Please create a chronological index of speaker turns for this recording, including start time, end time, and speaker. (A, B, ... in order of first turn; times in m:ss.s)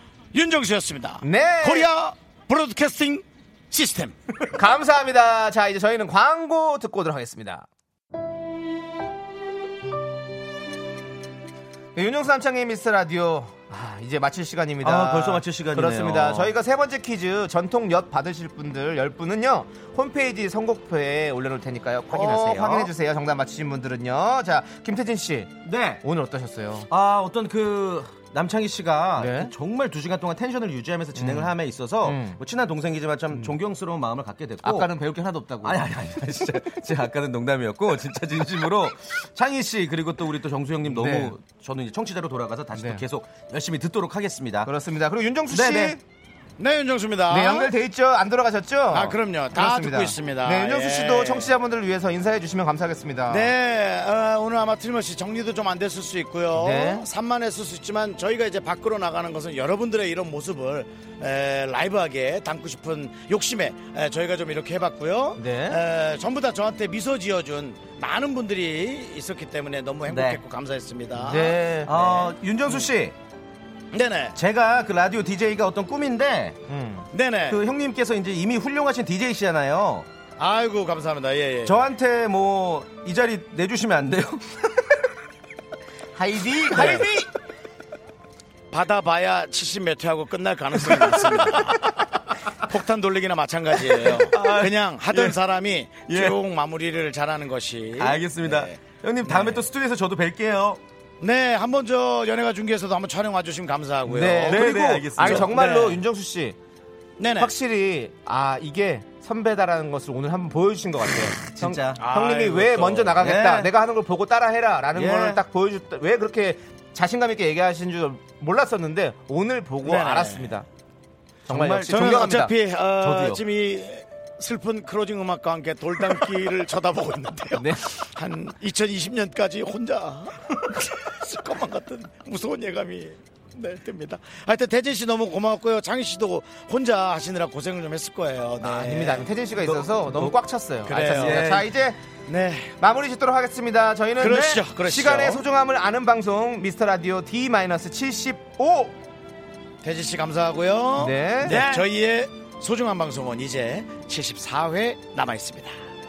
0:00.3-0:04.1 A
0:01.2-0:01.9 B
0:04.5-0:07.6 B
0:11.9-0:26.9 B
0:14.8-0:16.5 C
0:22.1-0:22.9 C
0:25.6-0:26.0 C
0:26.9-0:34.9 C
0:29.2-0:29.5 B
0:31.1-0:32.4 B
0:34.6-0:35.8 B
0:35.6-0:44.7 C
0:40.8-0:41.4 B
0:42.7-0:43.0 B
0:44.6-0:46.0 B
0:45.5-0:46.0 C
0:46.6-0:47.7 A
0:47.3-0:53.5 B
0:48.9-0:51.5 A
0:53.3-1:11.6 A
0:56.5-0:57.0 B
1:05.4-1:05.8 B
1:10.1-1:10.4 C
1:11.2-1:12.3 B
1:11.8-1:13.2 C
1:13.9-1:14.4 A
1:14.3-1:16.6 C
1:16.7-1:17.1 B
1:17.1-1:17.6 A
1:17.5-1:20.1 C
1:20.4-1:21.8 A
1:21.6-1:24.8 C
1:26.1-1:27.3 B
1:28.7-1:31.9 A
1:32.6-1:38.8 A
1:33.9-1:35.4 C
1:36.1-1:36.4 C
1:38.0-1:40.8 C
1:39.3-1:39.6 A
1:41.2-1:46.0 A
1:44.1-1:46.6 B
1:44.4-1:45.5 C
1:47.2-1:47.5 A
1:47.4-2:00.6 B
1:51.5-1:53.7 C
1:52.0-1:52.7 A
1:54.9-1:55.4 C
1:59.8-2:00.6 A
2:01.5-2:02.3 C
2:01.5-2:02.5 B
2:01.8-2:19.3 A
2:03.0-2:03.4 C
2:07.6-2:07.8 B
2:18.6-2:22.0 B
2:19.6-2:20.3 C
2:20.8-2:21.6 A
2:21.1-2:21.6 C
2:22.3-2:22.7 A
2:22.8-2:29.0 B
2:24.2-2:25.4 A
2:29.8-2:35.8 A
2:31.0-2:31.8 B